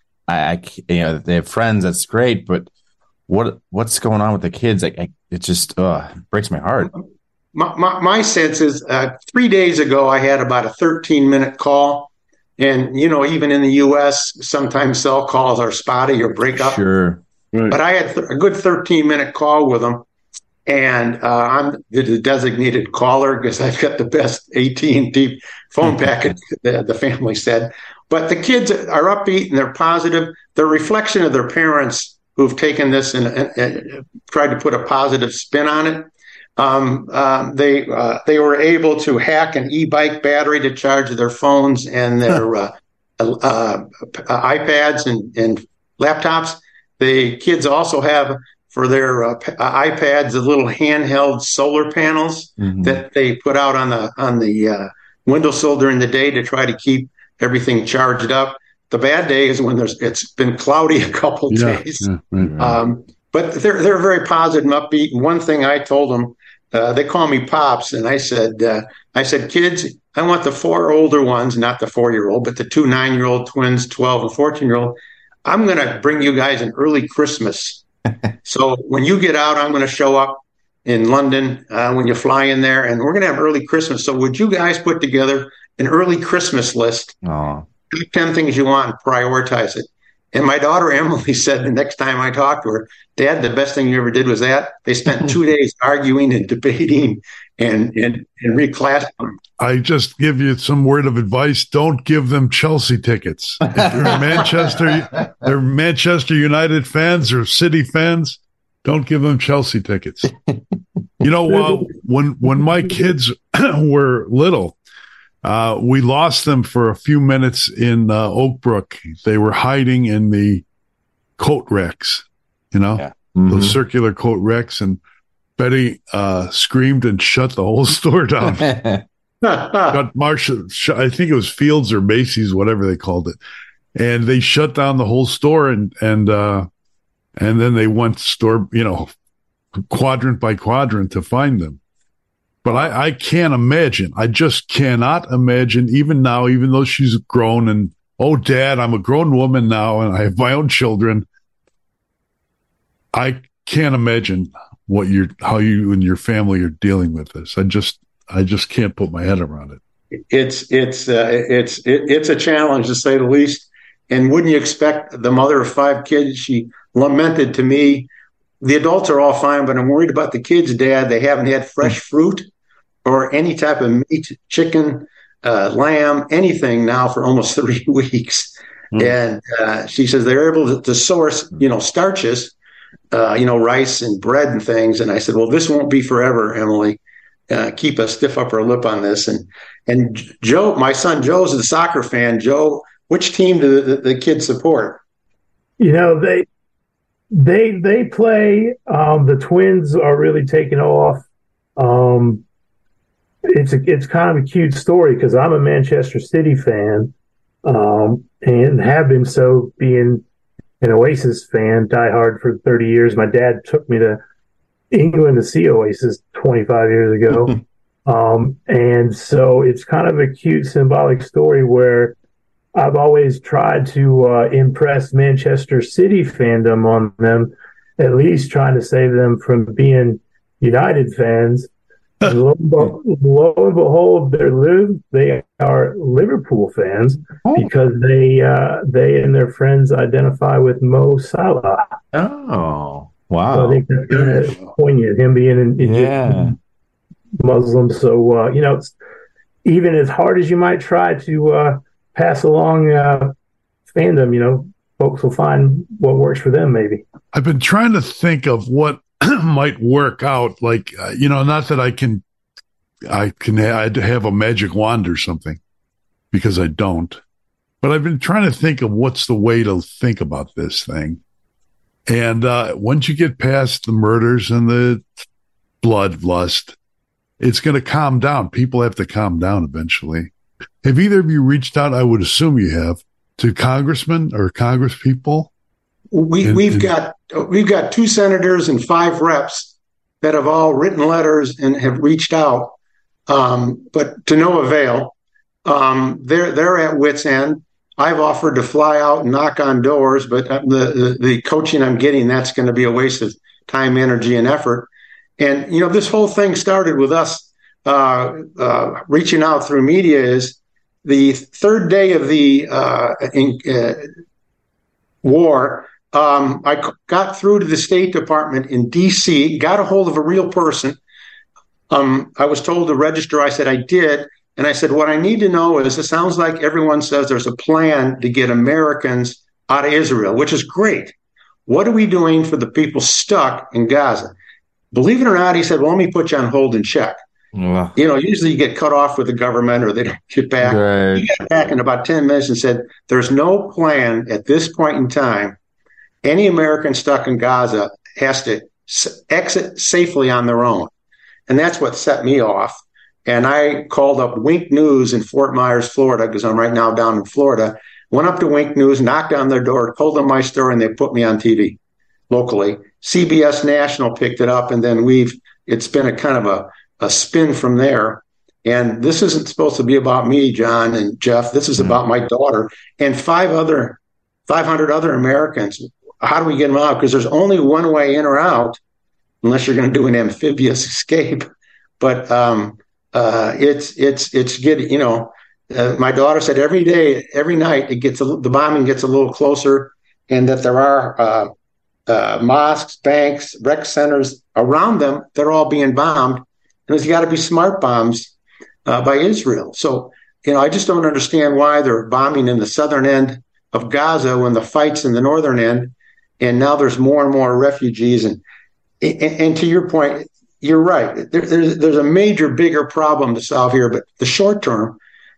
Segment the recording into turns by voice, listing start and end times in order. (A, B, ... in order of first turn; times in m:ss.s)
0:00.3-0:02.7 A
0:03.3-0:06.9 A
0:07.5-0:16.8 B
0:16.5-0:17.2 A
0:17.5-0:17.8 C
0:17.7-0:20.0 B
0:20.6-1:17.8 B
0:52.6-0:53.0 A
1:01.5-1:02.6 C
1:02.4-1:02.8 A
1:18.4-1:27.2 B
1:27.2-1:27.6 A
1:27.9-1:39.4 B
1:39.6-1:50.3 C
1:43.7-1:44.4 A
1:51.2-1:54.8 C
1:55.4-2:00.6 C
2:01.4-2:05.0 C
2:03.0-2:03.8 A
2:05.6-2:08.7 C
2:08.5-2:09.0 A
2:09.4-2:10.0 B
2:09.9-2:13.4 C
2:13.9-2:16.7 C
2:17.4-2:19.1 C
2:19.9-2:21.8 C
2:22.6-2:31.2 C
2:33.1-2:39.8 C
2:40.3-2:48.1 B
2:48.6-2:52.5 B
2:53.0-3:02.5 B
3:03.1-3:15.0 B
3:15.8-3:16.4 D
3:17.3-3:21.2 D
3:21.8-3:22.4 D
3:23.4-3:27.1 D
3:27.6-3:30.2 D
3:30.8-3:34.2 D
3:34.9-3:42.1 D
3:42.7-3:51.7 D
3:52.2-4:01.8 D
4:02.1-4:04.4 A
4:03.5-4:06.5 D
4:05.8-4:06.6 A
4:07.4-4:08.9 D
4:09.6-4:13.3 D
4:13.9-4:17.0 D
4:17.3-4:22.2 C
4:23.1-4:25.6 C
4:26.3-4:27.2 C
4:27.8-4:31.2 C
4:32.1-4:35.1 C
4:35.8-4:36.8 C
4:37.4-4:40.3 C
4:40.8-4:45.5 C
4:46.1-4:52.8 B
4:46.4-4:46.9 C
4:53.3-5:04.9 B
5:05.4-5:14.1 B
5:15.2-5:21.0 B
5:21.9-5:31.1 B
5:31.7-5:34.3 B
5:34.9-5:37.2 B
5:37.5-5:37.9 A
5:38.0-5:45.6 B
5:40.6-5:41.3 A
5:46.2-5:50.9 B
5:51.5-6:01.8 B
6:02.3-6:18.8 B
6:19.4-6:21.4 B
6:22.0-6:31.5 B
6:32.1-6:38.3 B
6:38.8-6:48.4 B
6:49.0-6:55.0 B